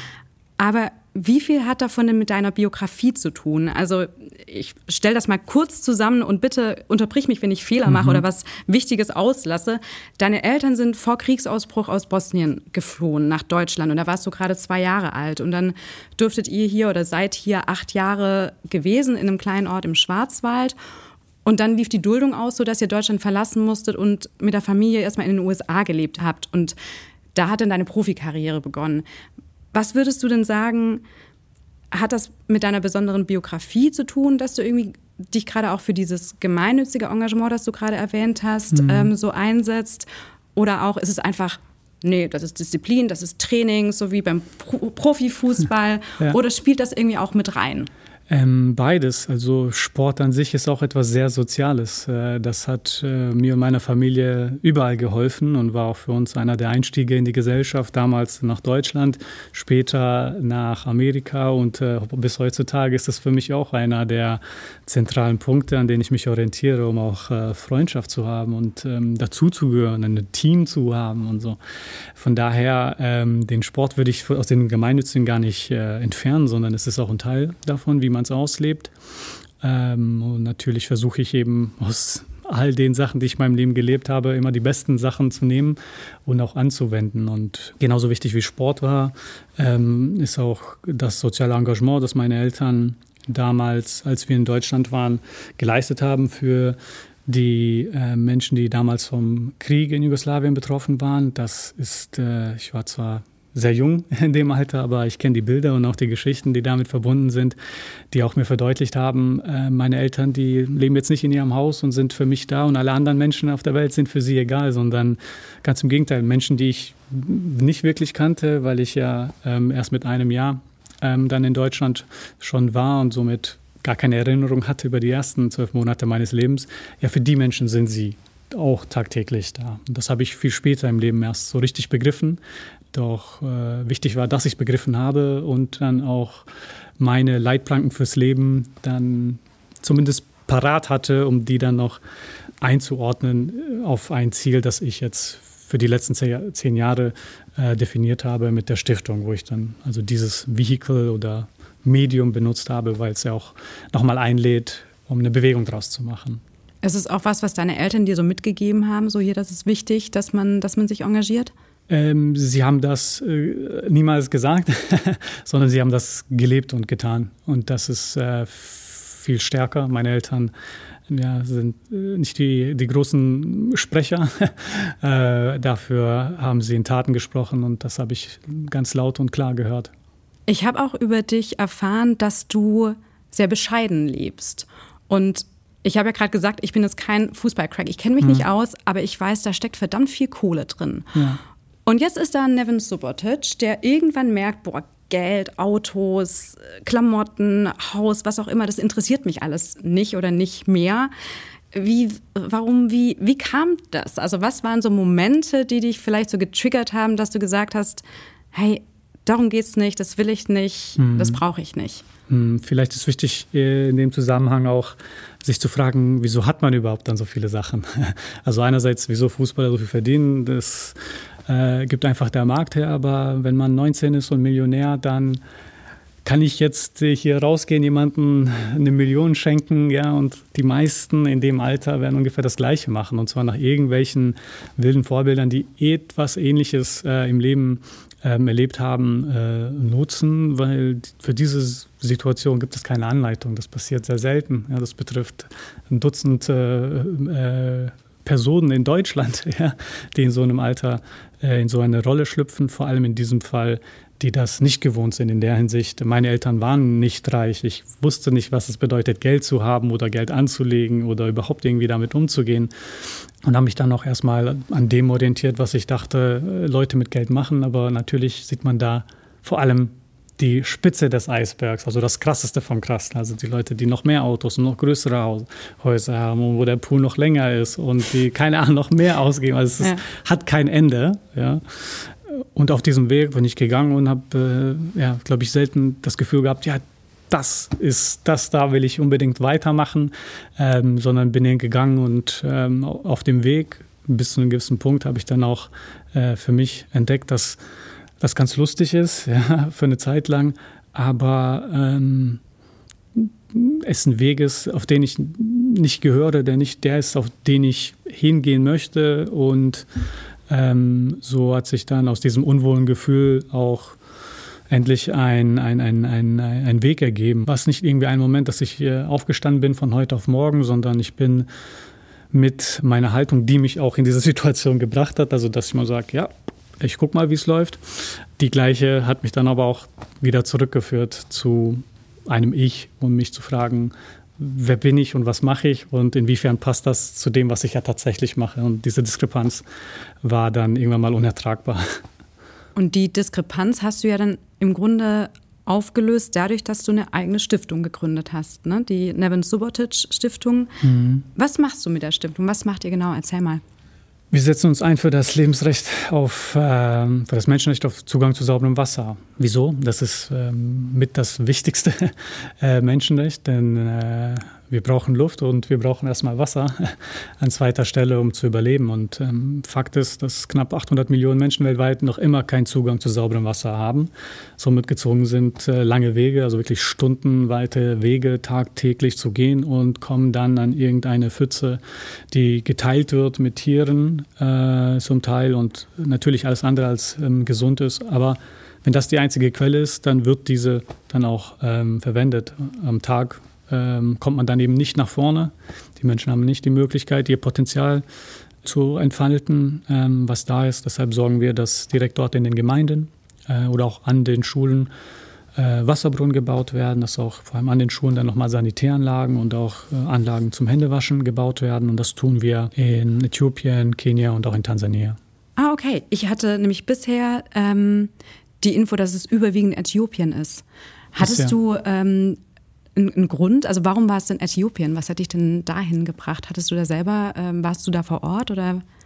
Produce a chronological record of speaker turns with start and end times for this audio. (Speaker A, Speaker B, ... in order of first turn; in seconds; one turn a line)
Speaker A: 0.6-20.8
Speaker B: 7.9-8.2
Speaker A: 21.4-26.8
Speaker A: 27.3-29.1
Speaker A: 29.7-31.0
Speaker A: 31.9-47.9
Speaker B: 38.7-39.1
Speaker B: 48.3-71.6
Speaker B: 72.2-78.9
Speaker B: 79.6-107.6
Speaker B: 108.1-132.4
Speaker B: 132.9-136.5
Speaker B: 137.0-142.0
Speaker B: 142.6-156.4
Speaker A: 156.8-161.5
Speaker B: 161.9-170.5
Speaker B: 171.1-179.9
Speaker A: 180.5-191.1
Speaker B: 191.2-191.4
Speaker A: 191.9-201.1
Speaker A: 201.7-212.0
Speaker B: 211.0-211.4
Speaker B: 212.3-225.4
Speaker B: 226.2-297.6
Speaker B: 298.2-302.4
Speaker B: 303.1-309.9
Speaker B: 310.5-314.0
Speaker B: 314.7-321.5
Speaker B: 322.3-339.6
Speaker B: 340.2-342.0
Speaker A: 342.8-350.8
Speaker B: 350.8-351.2
Speaker A: 351.4-353.6
Speaker B: 354.3-398.0
Speaker B: 398.6-404.9
Speaker B: 405.6-415.2
Speaker A: 415.6-422.4
Speaker B: 421.2-421.6
Speaker A: 423.0-428.8